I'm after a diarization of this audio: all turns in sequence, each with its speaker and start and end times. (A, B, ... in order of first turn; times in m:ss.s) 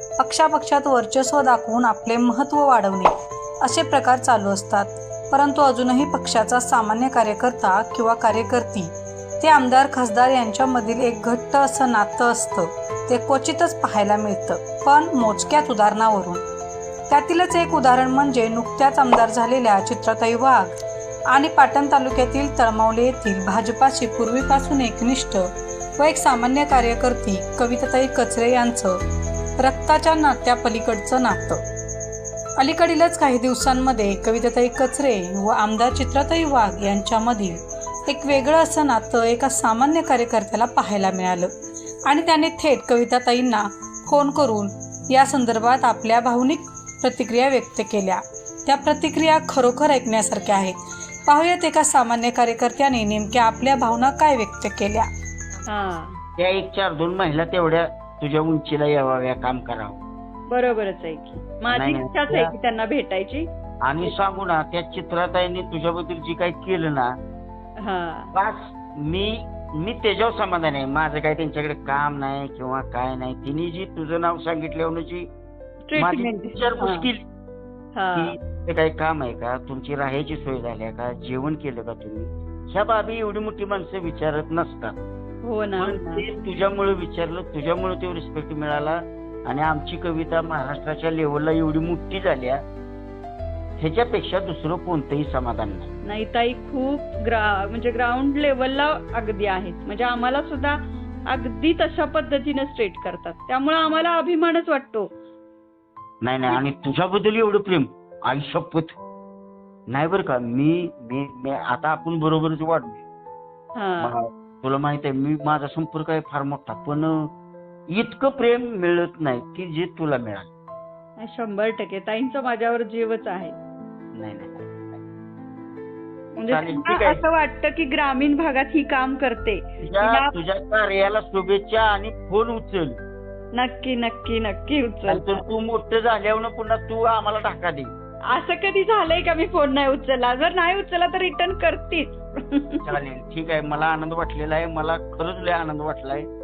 0:00.2-0:03.1 A
0:03.6-0:16.4 A
0:17.1-0:20.8 A
0:21.3-0:29.0 A
0:29.6-0:31.6 A
0:32.6-0:41.5 A
0:42.1-0:50.8 A
0:51.3-0:55.1 A
0:55.7-0:56.2 B
0:56.4-1:00.0 C
1:00.5-1:03.5 B
1:01.7-1:02.5 C
1:03.8-1:07.1 C
1:07.8-1:08.3 B
1:08.3-1:15.3 C
1:15.9-1:17.1 B
1:16.0-1:17.2 C
1:18.0-1:18.4 B
1:18.2-1:25.0 C
1:25.4-1:26.2 B
1:25.8-1:32.6 C
1:33.8-1:35.9 C
1:36.0-1:45.1 B
1:46.2-1:49.0 C
1:49.9-1:53.0 C
1:53.8-1:54.1 B
1:54.0-1:57.3 C
1:57.9-2:00.5 C
2:01.2-2:03.6 B
2:04.2-2:05.0 C
2:06.4-2:10.3 B
2:06.5-2:07.2 C
2:09.8-2:13.0 C
2:13.6-2:15.4 B
2:15.1-2:17.9 C
2:18.3-2:23.0 B
2:22.8-2:26.3 C